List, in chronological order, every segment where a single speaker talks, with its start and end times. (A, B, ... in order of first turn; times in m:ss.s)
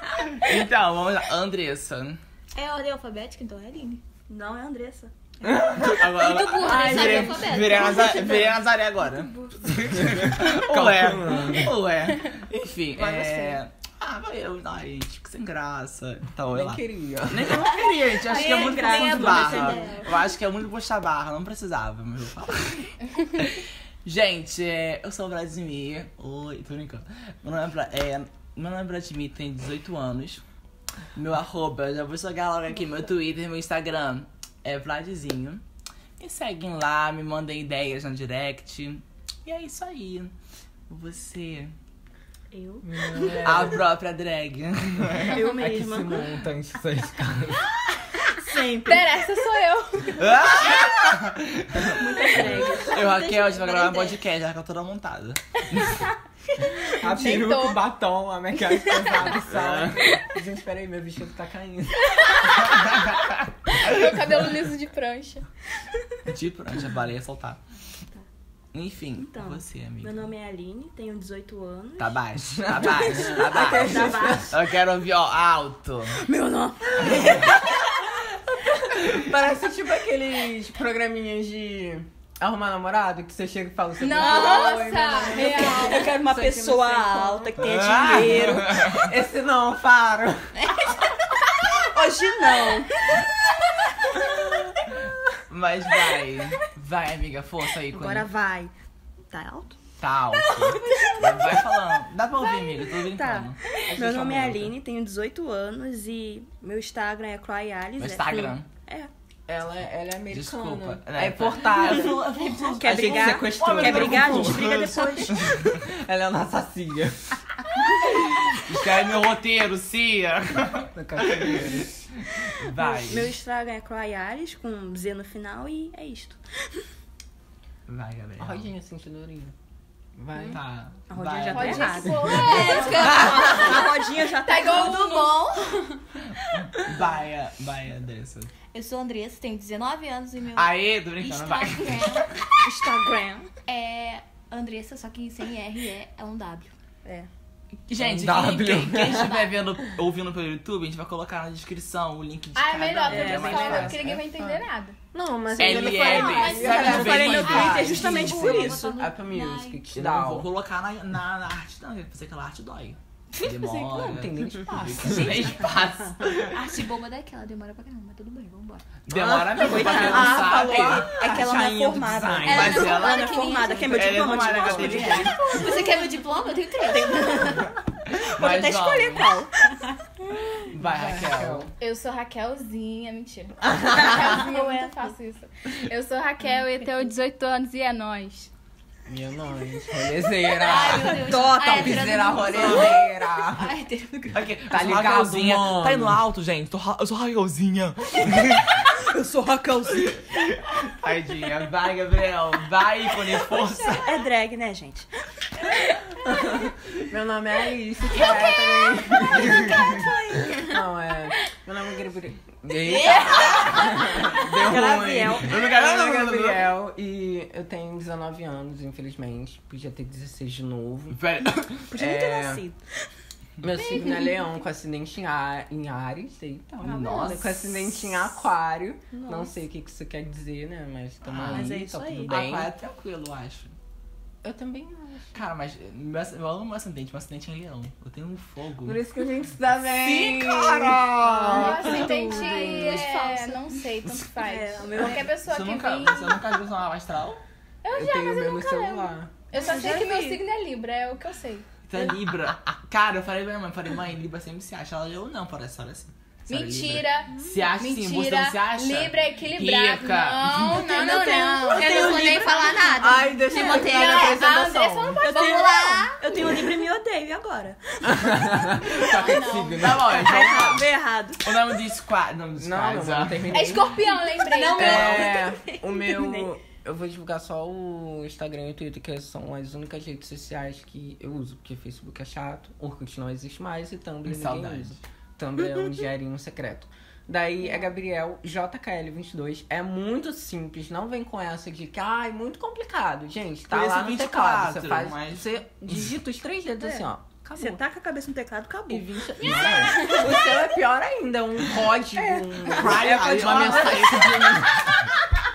0:00.3-0:02.2 A
0:02.5-0:04.0 B
0:04.3-0:05.1 C
0:05.5-0:05.9 D
0:05.5-0:30.4 A
0:06.0-0:08.6 B
0:06.6-0:08.3 C
0:10.0-0:11.7 D
0:13.0-0:13.6 C
0:16.5-0:17.7 D
0:17.5-0:20.3 B
0:18.2-0:20.0 C
0:31.1-0:35.6 A
0:36.2-0:40.3 A
0:40.9-0:41.7 A
0:42.5-0:43.6 C
0:42.8-0:43.8 D
0:43.4-0:45.6 A
0:45.2-0:46.4 C
0:45.6-0:47.7 D
0:48.2-0:49.4 C
0:48.8-0:50.8 E
0:50.1-0:56.0 A
0:51.8-0:53.2 C
0:52.8-0:54.2 B
0:56.6-0:57.8 E
0:57.0-1:02.3 D
0:58.9-0:59.3 E
0:59.2-1:00.1 A
1:02.1-1:03.0 E
1:03.7-1:05.4 E
1:03.8-1:04.2 A
1:06.2-1:07.6 A
1:08.7-1:10.3 A
1:09.2-1:12.2 C
1:12.0-1:16.2 A
1:12.4-1:14.6 D
1:12.8-1:14.5 C
1:16.2-1:18.1 C
1:17.0-1:17.5 D
1:19.0-1:30.8 D
1:24.0-1:26.2 E
1:24.2-1:28.8 C
1:27.6-1:29.1 A
1:30.7-1:33.0 C
1:34.2-1:35.0 C
1:35.5-1:38.3 A
1:37.9-1:38.7 C
1:39.3-1:39.8 C
1:40.0-1:43.7 A
1:40.4-1:41.8 C
1:42.4-1:49.1 C
1:43.9-1:44.8 D
1:48.0-1:48.7 A
1:49.5-1:57.4 D
1:50.3-1:55.8 A
1:52.6-1:55.5 C
1:58.0-2:01.8 A
2:00.9-2:02.0 D
2:02.4-2:03.4 A
2:02.8-2:06.4 C
2:07.9-2:08.7 A
2:08.4-2:09.5 D
2:10.1-2:10.6 D
2:10.5-2:12.3 A
2:11.1-2:15.2 C
2:11.4-2:13.8 E
2:12.3-2:15.8 B
2:13.0-2:13.3 A
2:14.4-2:16.0 E
2:16.5-2:18.5 A
2:18.7-2:22.3 B
2:20.5-2:22.2 A
2:22.6-2:23.5 C
2:23.7-2:26.7 B
2:27.9-2:34.1 A
2:28.0-2:29.5 D
2:29.1-2:29.5 B
2:32.6-2:34.9 E
2:33.1-2:33.9 C
2:33.5-2:40.5 D
2:35.6-2:38.8 A
2:35.6-2:39.0 C
2:36.1-2:37.0 E
2:36.8-2:39.8 B
2:39.9-2:46.6 A
2:43.4-2:45.6 D
2:45.2-2:46.3 C
2:46.5-2:48.8 B
2:49.0-2:51.1 A
2:49.1-2:52.9 D
2:49.5-2:55.8 C
2:52.4-2:53.4 A
2:52.4-2:54.0 B
2:52.8-2:54.1 E
2:53.9-2:55.6 A
2:54.6-2:55.4 D
2:55.4-2:57.6 B
2:56.9-3:00.7 C
2:58.1-2:59.3 A
3:00.7-3:01.7 A
3:00.8-3:01.7 D
3:01.8-3:08.5 E
3:03.8-3:05.0 C
3:09.1-3:13.7 D
3:10.5-3:14.4 B
3:10.8-3:11.2 A
3:11.3-3:11.9 C
3:11.8-3:13.0 A
3:14.3-3:19.0 A
3:14.7-3:16.2 D
3:19.1-3:20.2 C
3:19.8-3:24.2 A
3:23.9-3:25.1 C
3:26.2-3:30.0 D
3:28.2-3:30.8 C
3:30.6-3:41.2 D
3:32.6-3:36.7 A
3:32.9-3:35.8 C
3:41.1-3:41.9 A
3:41.9-3:42.8 C
3:41.9-3:42.6 D
3:43.6-3:52.7 D
3:44.0-3:44.3 C
3:46.8-3:48.1 A
3:49.1-3:49.5 C
3:51.3-3:53.7 A
3:51.4-3:52.4 C
3:54.4-3:55.4 D
3:55.3-3:59.0 A
3:58.8-4:01.4 D
3:59.9-4:02.1 A
4:01.2-4:03.0 C
4:01.5-4:06.4 E
4:01.7-4:03.8 B
4:04.3-4:05.3 C
4:05.3-4:07.4 A
4:07.8-4:11.6 E
4:07.9-4:09.3 D
4:09.5-4:10.4 C
4:11.9-4:20.9 A
4:16.5-4:22.6 E
4:17.3-4:17.6 C
4:20.8-4:22.7 C
4:21.0-4:24.5 B
4:23.0-4:25.2 D
4:23.5-4:26.1 E
4:25.2-4:27.8 C
4:25.2-4:26.6 B
4:28.0-4:30.3 D
4:29.0-4:29.9 E
4:29.8-4:33.7 A
4:30.0-4:31.6 C
4:32.6-4:34.0 D
4:33.5-4:35.2 E
4:34.3-4:35.6 B
4:34.5-4:36.5 C
4:34.7-4:57.8 D
4:44.2-4:45.0 A
4:53.7-4:56.1 A
4:57.5-5:00.1 C
4:58.9-5:05.0 D
4:59.4-5:00.3 E
5:02.6-5:04.7 A